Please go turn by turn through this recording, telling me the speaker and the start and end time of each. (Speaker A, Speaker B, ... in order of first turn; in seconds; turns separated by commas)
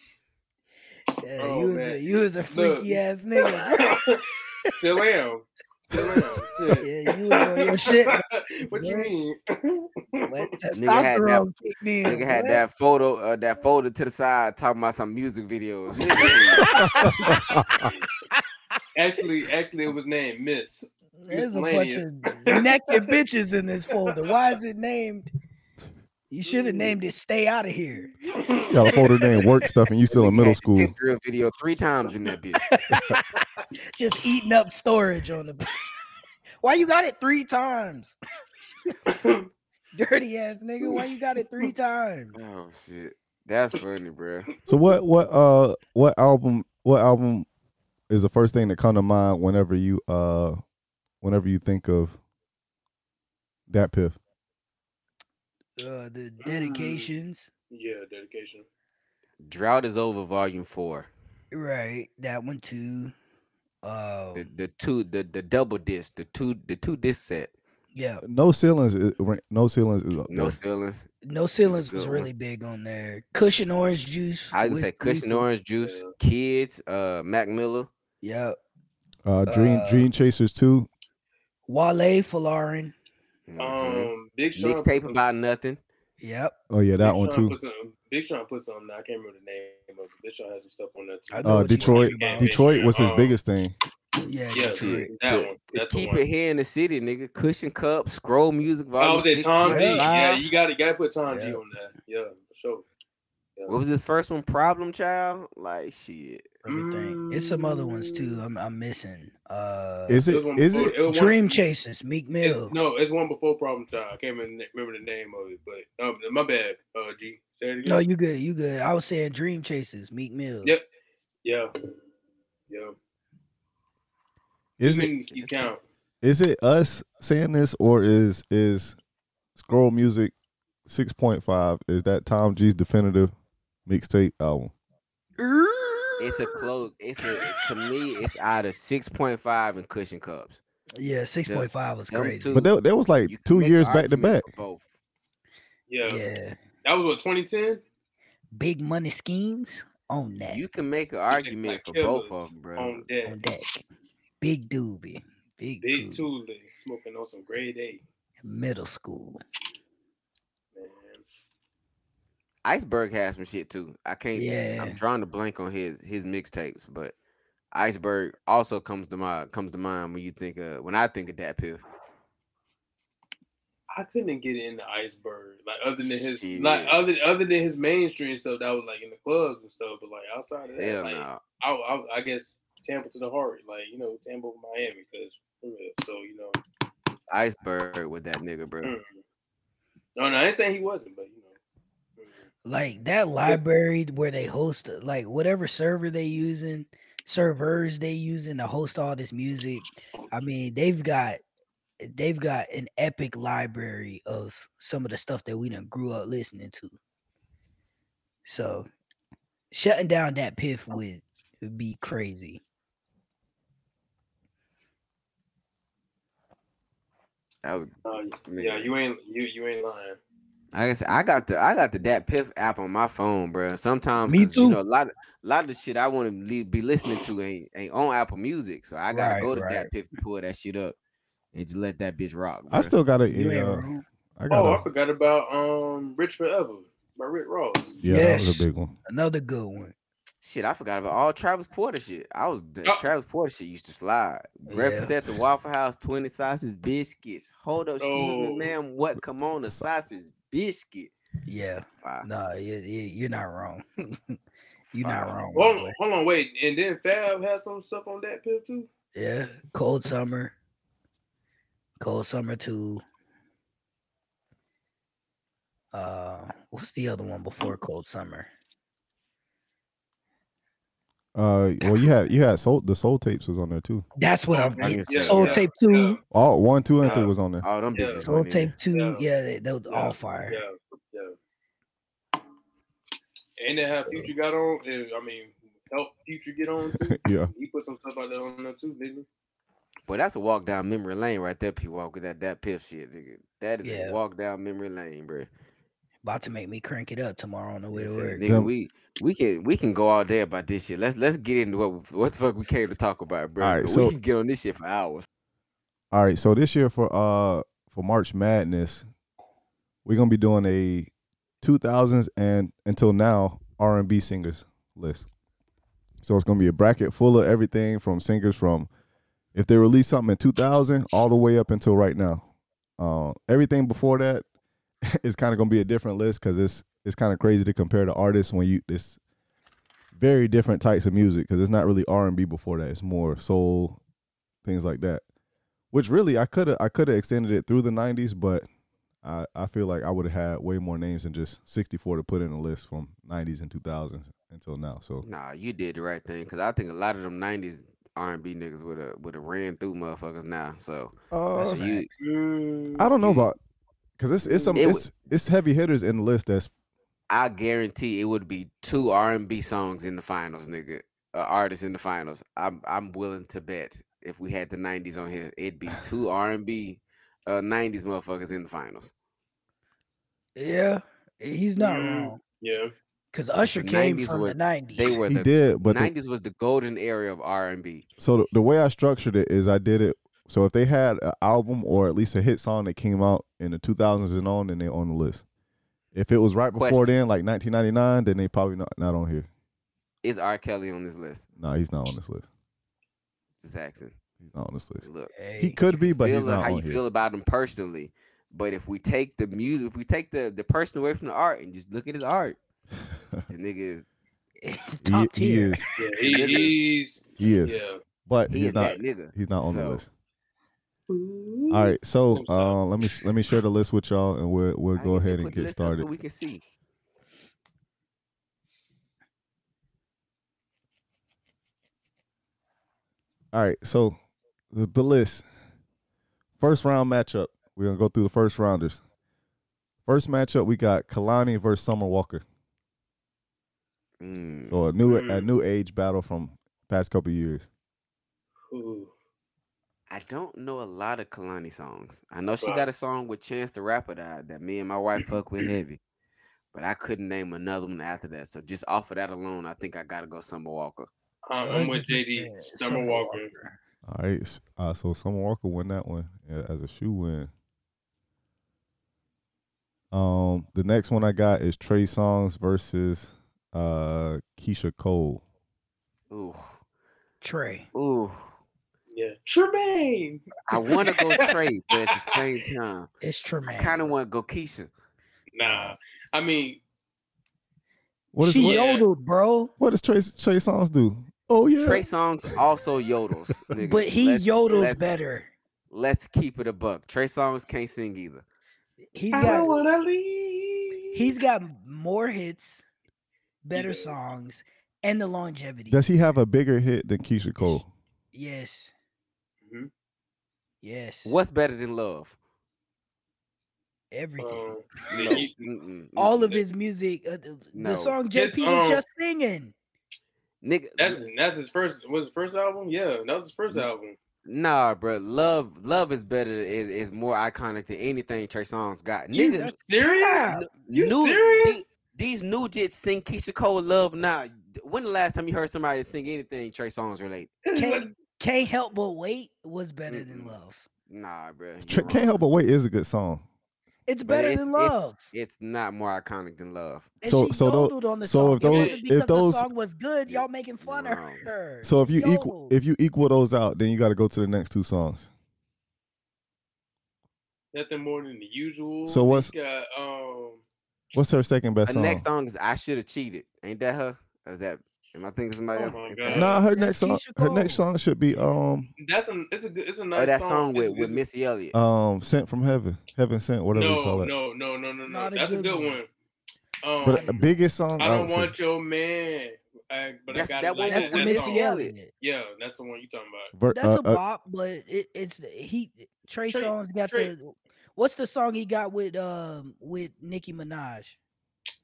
Speaker A: 1.2-4.0, Speaker B: 1.4-3.0, Speaker B: 3.6-10.4, Speaker A: 6.8-9.1, Speaker A: 10.2-12.6, Speaker C: 10.7-11.5, Speaker C: 12.0-16.7, Speaker A: 16.7-17.3, Speaker D: 16.8-17.9, Speaker B: 18.9-22.9, Speaker A: 21.2-25.3, Speaker B: 23.9-24.3, Speaker A: 26.3-28.1, Speaker B: 26.4-26.9, Speaker B: 28.3-29.0, Speaker D: 28.7-30.9, Speaker A: 30.1-30.9, Speaker C: 30.2-32.6, Speaker A: 32.7-33.2, Speaker A: 33.9-35.7, Speaker A: 36.6-38.1, Speaker B: 39.0-39.5, Speaker A: 39.9-42.4, Speaker C: 42.3-44.5, Speaker D: 44.7-47.5, Speaker D: 48.1-50.6, Speaker D: 51.2-52.2, Speaker D: 53.7-54.2, Speaker A: 55.8-57.5, Speaker B: 56.4-57.1, Speaker B: 57.7-58.6, Speaker C: 59.4-61.1, Speaker A: 61.5-63.1, Speaker A: 63.8-64.5, Speaker C: 64.3-67.5, Speaker A: 67.9-68.2, Speaker D: 68.2-70.6, Speaker C: 70.3-71.1, Speaker A: 71.2-75.5, Speaker C: 71.6-72.3, Speaker C: 74.5-77.9, Speaker B: 75.8-76.1, Speaker A: 78.2-78.6, Speaker D: 79.2-80.9, Speaker A: 79.5-80.1, Speaker A: 81.7-82.9, Speaker C: 83.5-85.8, Speaker B: 83.6-85.2, Speaker A: 86.2-86.5, Speaker D: 86.7-87.5, Speaker B: 87.0-93.3, Speaker A: 91.3-92.6, Speaker D: 91.4-93.7, Speaker A: 94.2-95.1, Speaker B: 94.5-96.2, Speaker C: 94.7-100.5, Speaker B: 99.0-102.8, Speaker A: 99.6-100.1, Speaker A: 101.3-101.6, Speaker C: 103.7-106.5, Speaker A: 106.6-110.2, Speaker B: 106.7-108.4, Speaker D: 110.1-111.0, Speaker B: 110.3-111.6, Speaker A: 111.0-112.7, Speaker B: 112.4-118.0, Speaker A: 117.8-120.7, Speaker B: 121.4-121.7, Speaker B: 122.7-122.9, Speaker D: 124.8-125.1, Speaker B: 124.8-125.8, Speaker C: 125.3-125.7, Speaker D: 126.2-129.0, Speaker D: 129.6-130.3, Speaker D: 130.8-133.3, Speaker D: 133.8-134.7, Speaker A: 135.4-136.7, Speaker C: 136.2-140.6, Speaker A: 140.9-142.5, Speaker C: 141.4-142.7, Speaker D: 142.5-144.5, Speaker C: 143.2-144.9, Speaker B: 145.9-146.3, Speaker A: 146.0-146.6, Speaker B: 146.8-147.8, Speaker A: 148.5-150.6, Speaker C: 150.5-153.0, Speaker B: 151.3-153.4, Speaker A: 153.2-153.8, Speaker A: 154.4-156.2, Speaker B: 155.8-158.0, Speaker A: 158.4-159.4, Speaker B: 160.7-161.2, Speaker C: 162.6-167.1, Speaker A: 164.3-165.0, Speaker C: 167.7-171.8, Speaker B: 173.9-186.6, Speaker C: 176.0-177.0, Speaker C: 180.8-181.4, Speaker C: 187.3-188.9, Speaker B: 188.8-189.2, Speaker B: 190.2-191.5, Speaker B: 192.2-192.4, Speaker A: 192.6-201.4, Speaker A: 202.0-206.9, Speaker A: 208.4-208.9, Speaker A: 209.7-212.6, Speaker C: 217.6-217.9, Speaker B: 218.0-220.2, Speaker C: 218.5-218.9, Speaker C: 220.7-230.9, Speaker A: 224.3-224.8, Speaker A: 229.1-229.9, Speaker C: 231.5-232.9, Speaker D: 232.7-233.8, Speaker A: 233.3-234.0, Speaker D: 234.4-234.8, Speaker B: 234.5-238.0, Speaker D: 238.0-238.9, Speaker A: 238.1-239.9, Speaker C: 240.4-251.1, Speaker A: 244.7-245.1, Speaker B: 248.0-248.7, Speaker A: 251.4-254.4, Speaker C: 252.0-252.3, Speaker C: 254.9-255.3, Speaker A: 254.9-255.9, Speaker B: 255.5-258.9, Speaker A: 259.1-260.5, Speaker A: 262.0-263.0, Speaker A: 265.9-268.5, Speaker D: 271.3-274.0, Speaker A: 274.2-276.2, Speaker B: 274.5-276.2, Speaker C: 274.8-275.6, Speaker D: 276.3-277.6, Speaker B: 277.0-277.3, Speaker C: 277.0-278.7, Speaker B: 277.9-278.3, Speaker A: 278.2-280.6, Speaker B: 278.9-279.2, Speaker B: 279.9-281.4, Speaker B: 283.6-289.2, Speaker D: 287.1-287.5, Speaker C: 290.1-295.5, Speaker A: 293.8-294.2, Speaker A: 296.2-298.4, Speaker C: 297.9-305.3, Speaker D: 298.4-298.7, Speaker D: 303.6-304.1, Speaker D: 306.1-309.1, Speaker D: 310.0-311.1, Speaker D: 311.6-315.3, Speaker D: 316.2-318.9, Speaker D: 319.5-322.4, Speaker D: 323.0-324.4, Speaker D: 325.1-329.2, Speaker D: 330.1-334.0, Speaker D: 334.6-335.2, Speaker D: 335.9-338.6, Speaker D: 339.2-345.2, Speaker C: 345.2-352.1, Speaker D: 351.3-351.9, Speaker A: 351.6-352.1, Speaker B: 352.2-353.4, Speaker D: 353.0-353.6, Speaker D: 354.2-356.7, Speaker B: 354.4-354.8, Speaker C: 354.7-355.1, Speaker C: 357.3-369.1, Speaker A: 370.6-372.4, Speaker B: 371.8-372.9, Speaker A: 373.3-375.2, Speaker C: 373.6-378.1, Speaker D: 375.2-376.1, Speaker D: 378.2-385.4, Speaker D: 386.1-389.5, Speaker C: 386.7-387.1, Speaker C: 390.2-391.5, Speaker D: 391.6-392.4, Speaker C: 393.6-394.2, Speaker D: 394.4-395.0, Speaker C: 395.0-395.3, Speaker A: 395.3-395.8, Speaker D: 395.6-397.0, Speaker C: 395.9-402.6, Speaker C: 403.5-404.1, Speaker A: 404.6-406.6, Speaker D: 405.0-405.8, Speaker B: 406.0-408.0, Speaker C: 406.2-406.8, Speaker D: 407.4-410.1, Speaker C: 408.5-410.0, Speaker B: 411.1-412.8, Speaker D: 411.7-416.1, Speaker C: 414.9-416.6, Speaker D: 423.5-424.1, Speaker D: 424.7-425.4, Speaker D: 426.6-429.0, Speaker D: 430.1-432.4, Speaker C: 434.2-434.8, Speaker D: 434.7-437.7, Speaker B: 435.0-435.5, Speaker B: 438.7-439.1, Speaker C: 440.1-446.0, Speaker C: 446.7-451.1, Speaker B: 451.5-453.5, Speaker A: 451.6-453.8, Speaker D: 454.1-457.5, Speaker D: 460.1-465.4, Speaker C: 466.3-466.8, Speaker A: 467.4-467.9, Speaker C: 467.9-468.5, Speaker B: 469.1-471.5, Speaker C: 470.7-473.1, Speaker B: 472.1-472.5, Speaker A: 473.2-474.1, Speaker C: 473.7-474.9, Speaker B: 475.5-476.8, Speaker A: 475.6-475.9, Speaker D: 478.3-478.8, Speaker A: 478.4-479.7, Speaker B: 478.6-479.1, Speaker D: 479.8-482.0, Speaker C: 481.8-485.0, Speaker A: 483.8-485.5, Speaker C: 485.9-488.4, Speaker A: 489.1-489.8, Speaker B: 489.3-491.4, Speaker A: 491.1-492.8, Speaker A: 493.6-496.0, Speaker B: 493.7-494.2, Speaker D: 495.9-497.9, Speaker A: 498.3-498.9, Speaker B: 499.6-499.9, Speaker A: 500.8-501.4, Speaker C: 501.2-502.4, Speaker A: 504.1-505.4, Speaker B: 504.4-505.7, Speaker C: 505.1-506.6, Speaker A: 506.1-509.7, Speaker C: 507.7-508.2, Speaker B: 508.3-509.0, Speaker C: 510.6-511.2, Speaker B: 511.0-514.2, Speaker C: 514.5-519.8, Speaker A: 519.3-520.6, Speaker B: 519.4-521.8, Speaker C: 520.5-527.5, Speaker B: 527.6-528.1, Speaker A: 527.7-530.9, Speaker C: 530.1-530.5, Speaker C: 531.1-532.4, Speaker D: 531.8-533.4, Speaker A: 534.1-535.3, Speaker C: 534.2-537.1, Speaker A: 537.2-542.8, Speaker D: 537.2-539.7, Speaker B: 538.6-539.0, Speaker C: 540.3-541.5, Speaker D: 541.8-545.3, Speaker B: 547.7-550.6, Speaker D: 549.0-549.5, Speaker D: 551.1-552.3, Speaker C: 551.9-556.6, Speaker B: 555.7-556.5, Speaker A: 556.3-557.8, Speaker D: 556.3-558.9, Speaker B: 559.0-561.2, Speaker C: 560.1-561.7, Speaker D: 561.7-564.3, Speaker B: 563.7-566.1, Speaker A: 565.1-566.0, Speaker B: 566.8-567.5, Speaker D: 567.0-568.5, Speaker A: 567.0-567.5, Speaker B: 568.0-571.6, Speaker C: 570.3-571.9, Speaker A: 570.9-572.1, Speaker B: 572.2-573.5, Speaker D: 573.5-574.2, Speaker A: 573.7-581.2, Speaker B: 576.5-577.3